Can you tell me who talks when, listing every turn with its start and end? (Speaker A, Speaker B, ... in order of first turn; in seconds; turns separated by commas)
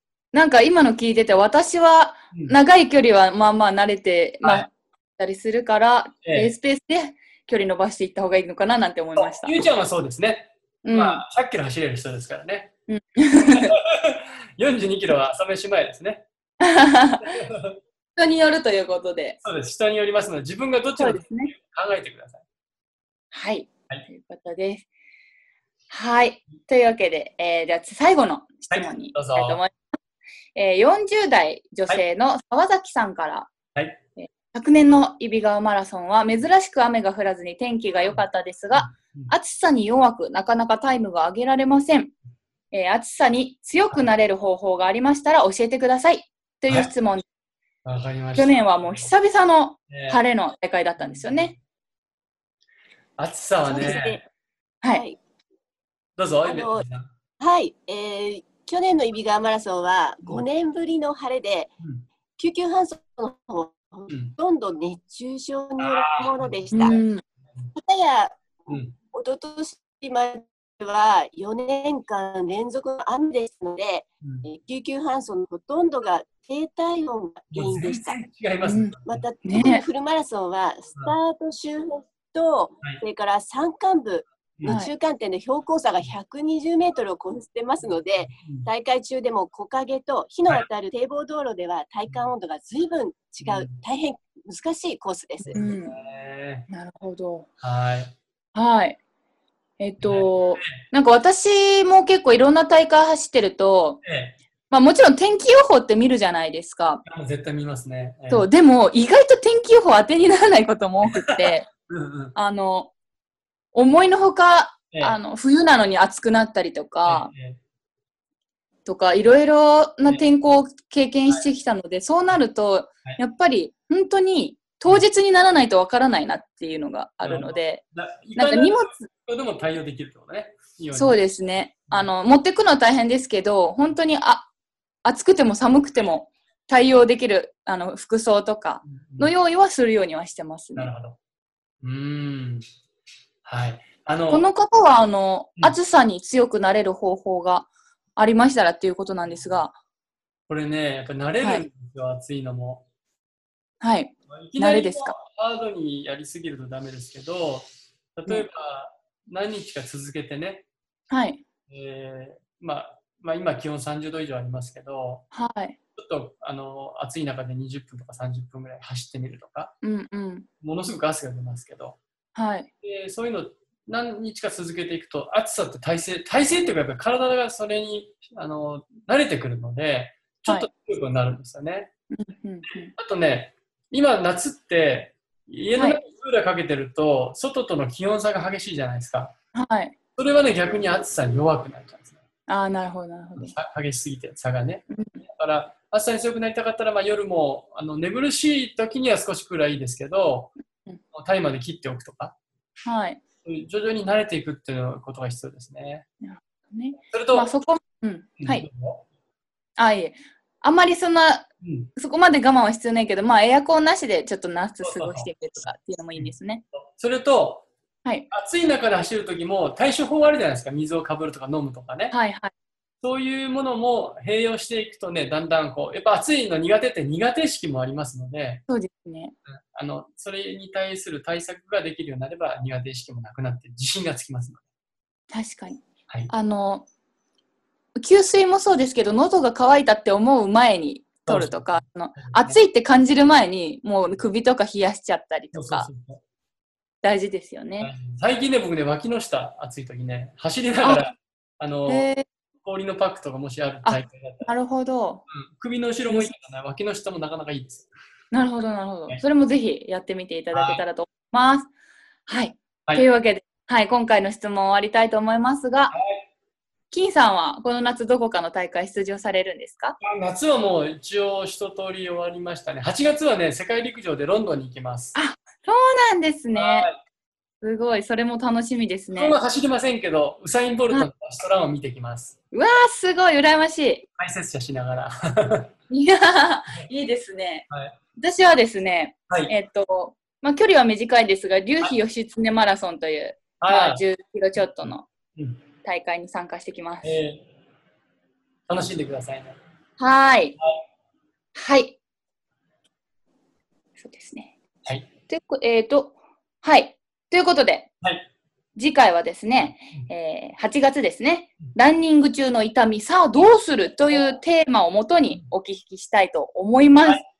Speaker A: 0.3-9.6, Speaker B: 6.2-6.5, Speaker B: 9.2-12.7, Speaker A: 10.8-11.2, Speaker A: 12.9-13.7, Speaker B: 13.3-16.2, Speaker A: 16.6-17.4, Speaker B: 17.2-17.8, Speaker A: 18.2-19.4, Speaker B: 19.4-22.4, Speaker A: 21.0-21.5, Speaker A: 23.3-24.9, Speaker A: 25.9-29.8, Speaker B: 28.7-29.6, Speaker A: 30.5-33.5, Speaker B: 33.7-34.0, Speaker A: 34.2-42.1, Speaker B: 38.7-39.3, Speaker A: 42.7-47.2, Speaker B: 47.8-49.1, Speaker A: 48.4-51.5, Speaker B: 49.9-50.2, Speaker B: 51.0-51.6, Speaker B: 53.2-54.2, Speaker C: 53.6-54.2, Speaker C: 54.9-55.2, Speaker B: 56.2-57.1, Speaker C: 56.4-56.9, Speaker C: 57.4-61.7, Speaker B: 61.8-62.1, Speaker C: 62.4-67.0, Speaker B: 64.1-64.3, Speaker B: 65.8-67.0, Speaker A: 66.7-67.2, Speaker C: 67.7-78.2, Speaker B: 68.7-68.9, Speaker B: 77.5-79.2, Speaker A: 78.6-79.8, Speaker C: 79.0-95.6, Speaker A: 84.7-84.9, Speaker B: 88.2-88.7, Speaker B: 93.4-93.8, Speaker B: 95.4-96.7, Speaker A: 95.5-96.0, Speaker A: 96.7-97.5, Speaker B: 97.6-98.1, Speaker A: 98.5-99.0, Speaker A: 99.8-104.0, Speaker B: 100.0-100.8, Speaker B: 104.0-104.4, Speaker A: 104.7-107.0, Speaker B: 107.0-108.5, Speaker A: 108.3-111.7, Speaker B: 111.3-112.3, Speaker A: 112.3-112.9, Speaker A: 113.7-117.3, Speaker B: 114.9-115.2, Speaker B: 117.0-117.6, Speaker A: 118.8-127.8, Speaker B: 127.2-131.2, Speaker A: 128.3-129.1, Speaker A: 130.9-134.5, Speaker A: 135.0-140.9, Speaker B: 138.8-139.3, Speaker B: 140.7-141.2, Speaker B: 141.8-142.6, Speaker B: 143.4-144.5, Speaker A: 144.3-149.7, Speaker B: 150.5-152.8, Speaker A: 151.4-151.7, Speaker A: 153.8-155.1, Speaker B: 154.3-160.7, Speaker A: 161.1-161.4, Speaker B: 161.7-165.2, Speaker A: 165.3-165.8, Speaker B: 166.0-169.7, Speaker A: 169.8-170.4, Speaker B: 170.6-172.0, Speaker A: 172.3-172.7, Speaker B: 172.8-181.9, Speaker A: 182.1-182.9, Speaker B: 182.9-189.3, Speaker A: 185.8-186.0, Speaker A: 189.5-189.9, Speaker B: 190.2-192.1, Speaker A: 192.5-193.5, Speaker B: 193.4-200.5, Speaker A: 194.9-195.2, Speaker B: 201.1-202.3, Speaker A: 202.8-203.2, Speaker B: 203.4-206.0, Speaker A: 206.2-208.7, Speaker B: 207.1-207.5, Speaker B: 208.4-209.0, Speaker A: 209.8-216.6, Speaker B: 211.6-211.9, Speaker B: 214.8-215.3, Speaker B: 216.1-217.7, Speaker B: 218.3-222.1, Speaker A: 222.1-222.5, Speaker B: 223.0-228.6, Speaker A: 228.7-229.3, Speaker B: 229.5-234.6, Speaker A: 235.3-236.9, Speaker A: 237.9-245.9, Speaker B: 241.3-242.6, Speaker B: 245.5-246.2, Speaker A: 247.0-247.9, Speaker B: 247.8-252.1, Speaker A: 250.8-251.1, Speaker A: 251.9-252.2, Speaker B: 252.6-254.5, Speaker A: 253.8-255.2, Speaker B: 255.3-257.9, Speaker A: 256.1-256.3, Speaker A: 258.3-261.7, Speaker B: 260.5-260.8, Speaker A: 262.3-265.9, Speaker B: 265.9-266.2, Speaker A: 266.9-270.0, Speaker B: 270.0-275.1, Speaker A: 275.1-276.9, Speaker B: 276.5-276.9, Speaker A: 277.6-279.4, Speaker B: 279.1-282.4, Speaker A: 282.5-284.0, Speaker B: 284.2-285.7, Speaker A: 285.9-295.1, Speaker B: 287.7-287.9, Speaker B: 293.6-294.0, Speaker B: 294.6-295.6, Speaker A: 295.8-297.2, Speaker B: 297.0-297.4, Speaker B: 298.7-299.6, Speaker A: 300.0-300.6, Speaker A: 301.6-301.9, Speaker A: 304.0-304.5, Speaker A: 305.3-307.9, Speaker B: 308.0-308.3, Speaker A: 308.8-317.2, Speaker B: 309.6-310.1